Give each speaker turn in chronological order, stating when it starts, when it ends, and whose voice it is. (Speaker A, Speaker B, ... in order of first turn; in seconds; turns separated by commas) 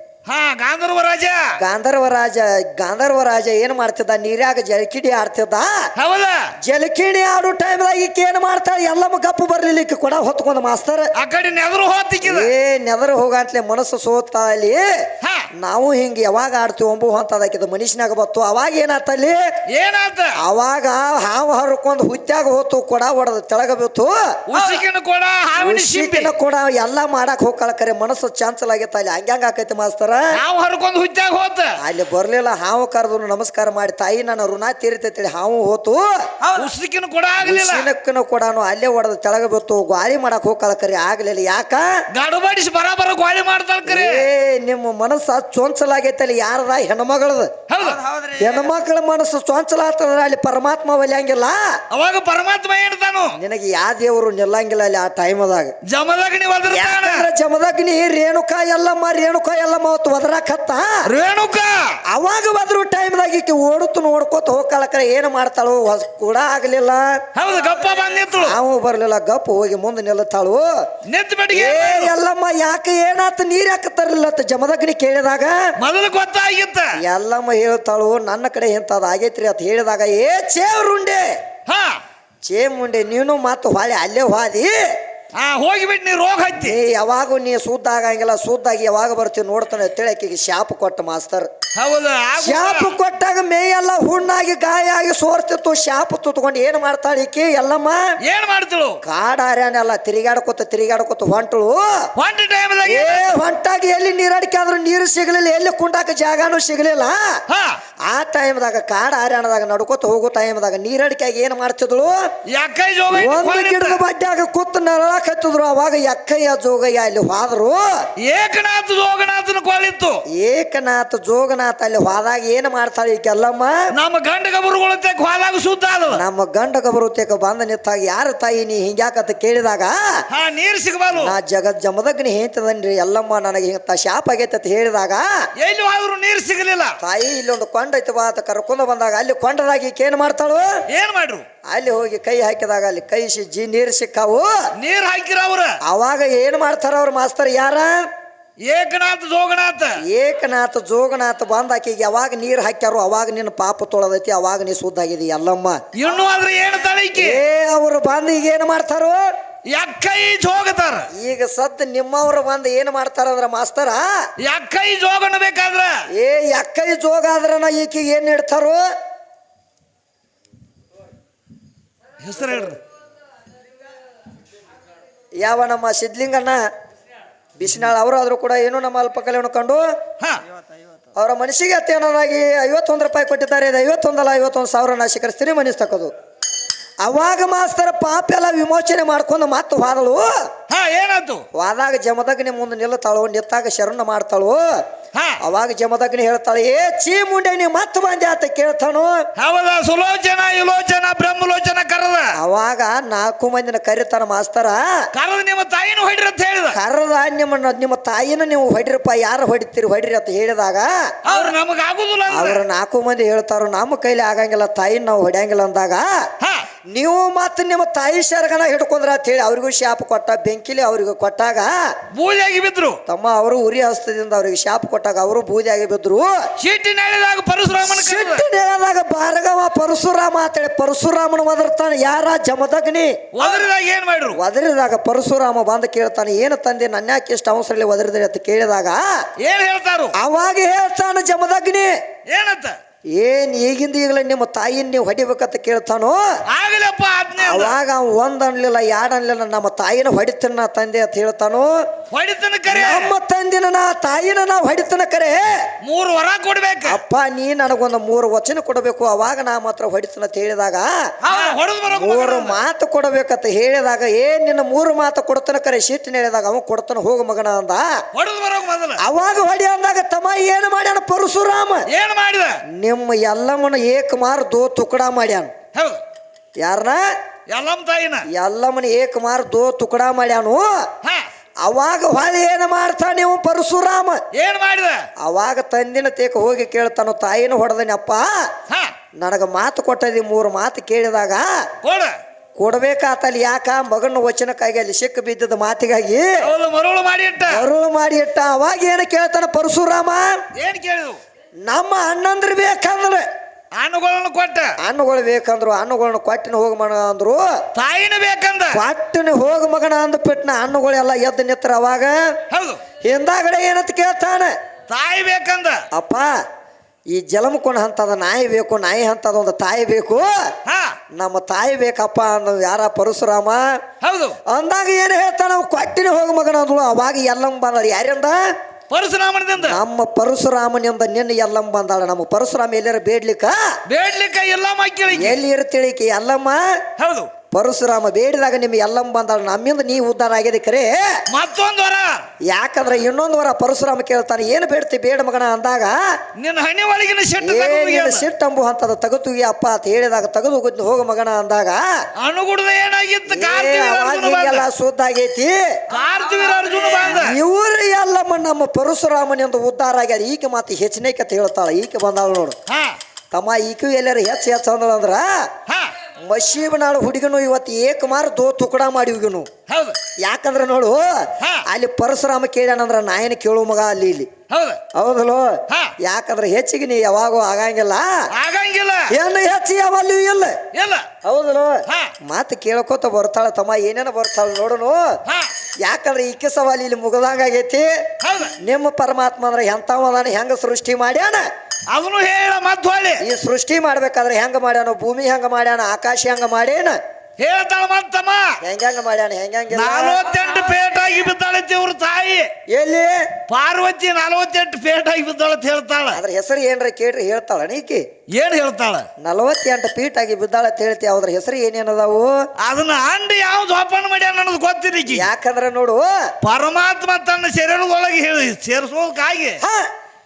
Speaker A: 0.2-1.5, Speaker B: 1.6-5.9, Speaker A: 6.0-6.5, Speaker B: 6.6-11.1, Speaker A: 11.2-12.5, Speaker B: 12.2-15.0, Speaker A: 15.2-15.5, Speaker B: 15.5-19.4, Speaker A: 19.7-20.4, Speaker B: 20.4-24.4, Speaker A: 24.5-26.3, Speaker C: 24.5-24.8, Speaker B: 25.6-30.4, Speaker A: 30.3-31.7, Speaker B: 31.8-36.2, Speaker C: 36.4-36.7, Speaker A: 36.5-37.9, Speaker B: 37.4-42.0, Speaker A: 42.1-44.3, Speaker B: 43.9-47.5, Speaker A: 47.7-48.0, Speaker C: 47.8-48.7, Speaker B: 48.4-51.8, Speaker A: 51.9-53.4, Speaker B: 53.3-55.7, Speaker A: 55.9-57.3, Speaker B: 56.7-61.1, Speaker A: 61.0-62.0, Speaker B: 62.1-67.2, Speaker A: 67.3-68.6, Speaker C: 67.5-68.2, Speaker B: 68.3-70.9, Speaker A: 71.0-72.1, Speaker B: 71.5-75.7, Speaker A: 75.8-76.9, Speaker B: 77.0-81.4, Speaker A: 81.7-82.0, Speaker B: 82.4-84.9, Speaker A: 85.3-86.8, Speaker B: 86.6-91.5, Speaker A: 91.8-93.0, Speaker B: 92.4-98.2, Speaker A: 98.2-99.0, Speaker B: 99.0-102.1, Speaker A: 102.2-103.4, Speaker B: 102.8-107.4, Speaker A: 107.5-107.8, Speaker B: 108.1-112.3, Speaker A: 112.5-114.0, Speaker B: 113.1-118.0, Speaker A: 118.2-120.2, Speaker B: 120.3-123.8, Speaker A: 123.9-126.2, Speaker B: 126.1-130.2, Speaker A: 130.3-131.3, Speaker B: 131.1-135.4, Speaker A: 135.6-136.9, Speaker B: 137.0-140.8, Speaker A: 140.9-141.4, Speaker B: 141.7-144.7, Speaker A: 144.8-145.8, Speaker B: 145.8-148.1, Speaker A: 148.6-150.0, Speaker B: 150.0-155.8, Speaker A: 155.9-157.4, Speaker B: 157.2-159.3, Speaker A: 159.7-161.1, Speaker B: 161.1-164.3, Speaker A: 164.4-165.9, Speaker B: 166.1-168.8, Speaker A: 172.2-172.8, Speaker B: 175.4-176.6, Speaker B: 177.6-179.9, Speaker C: 180.5-180.8, Speaker B: 181.2-186.1, Speaker B: 187.0-190.5, Speaker A: 190.7-191.4, Speaker B: 191.5-194.8, Speaker A: 195.1-195.4, Speaker B: 195.4-199.3, Speaker A: 199.3-202.3, Speaker B: 202.4-205.1, Speaker A: 205.1-206.8, Speaker B: 206.7-211.2, Speaker A: 211.2-212.6, Speaker B: 212.3-216.2, Speaker A: 216.4-216.7, Speaker B: 216.9-221.9, Speaker A: 222.1-223.0, Speaker B: 223.1-226.5, Speaker A: 226.6-228.4, Speaker B: 227.8-233.6, Speaker A: 233.3-234.4, Speaker B: 234.3-239.0, Speaker A: 239.4-240.1, Speaker B: 240.1-241.9, Speaker A: 242.3-242.8, Speaker B: 243.1-246.3, Speaker A: 246.5-247.8, Speaker B: 247.4-251.8, Speaker A: 252.1-253.1, Speaker B: 252.7-255.7, Speaker A: 255.8-257.0, Speaker B: 256.9-261.1, Speaker C: 261.2-261.6, Speaker A: 261.2-262.6, Speaker B: 261.9-268.0, Speaker A: 268.1-269.0, Speaker B: 269.0-271.9, Speaker A: 271.9-272.5, Speaker B: 272.7-275.5, Speaker A: 275.7-276.0, Speaker B: 276.6-277.1, Speaker A: 277.5-278.2, Speaker B: 278.3-280.9, Speaker A: 281.0-281.3, Speaker B: 281.6-284.2, Speaker A: 284.3-285.0, Speaker B: 285.2-288.5, Speaker A: 288.7-288.9, Speaker B: 289.2-291.7, Speaker A: 291.8-292.2, Speaker B: 292.6-296.4, Speaker A: 296.4-297.7, Speaker B: 297.5-300.4, Speaker A: 300.5-301.2, Speaker B: 301.6-303.2, Speaker A: 303.7-304.7, Speaker B: 304.8-307.6, Speaker A: 307.7-308.8, Speaker B: 308.7-312.4, Speaker A: 312.5-312.8, Speaker B: 313.0-314.6, Speaker A: 314.9-315.8, Speaker B: 315.9-316.4, Speaker B: 317.1-320.5, Speaker A: 320.6-321.0, Speaker B: 321.1-323.8, Speaker A: 324.0-324.4, Speaker B: 324.5-328.5, Speaker A: 328.9-329.8, Speaker B: 329.6-333.8, Speaker A: 333.9-335.4, Speaker B: 335.1-336.8, Speaker A: 337.0-337.3, Speaker B: 337.5-341.2, Speaker A: 341.3-342.2, Speaker B: 342.5-346.1, Speaker A: 346.4-348.2, Speaker B: 347.4-351.8, Speaker A: 352.2-354.6, Speaker B: 353.3-355.8, Speaker A: 355.9-357.4, Speaker C: 355.9-357.2, Speaker B: 357.0-362.6, Speaker A: 362.7-363.0, Speaker B: 363.3-365.5, Speaker A: 365.7-365.9, Speaker B: 366.2-369.5, Speaker A: 369.7-370.0, Speaker B: 370.2-374.3, Speaker A: 371.4-371.6, Speaker A: 374.5-374.8, Speaker B: 374.9-378.3, Speaker A: 375.7-375.9, Speaker A: 378.3-379.1, Speaker B: 379.1-380.6, Speaker A: 380.7-381.1, Speaker B: 381.2-385.2, Speaker A: 381.9-382.1, Speaker A: 385.2-385.5, Speaker B: 385.8-388.0, Speaker A: 388.2-388.5, Speaker B: 388.6-391.5, Speaker A: 391.9-393.2, Speaker B: 393.2-397.0, Speaker A: 397.4-398.6, Speaker B: 398.6-400.2, Speaker A: 399.7-402.5, Speaker C: 400.2-401.2, Speaker B: 402.7-403.3, Speaker A: 403.5-406.2, Speaker B: 406.1-408.1, Speaker A: 408.3-409.1, Speaker B: 409.2-412.4, Speaker A: 412.6-415.2, Speaker B: 415.1-416.1, Speaker A: 416.4-419.6, Speaker B: 419.6-419.9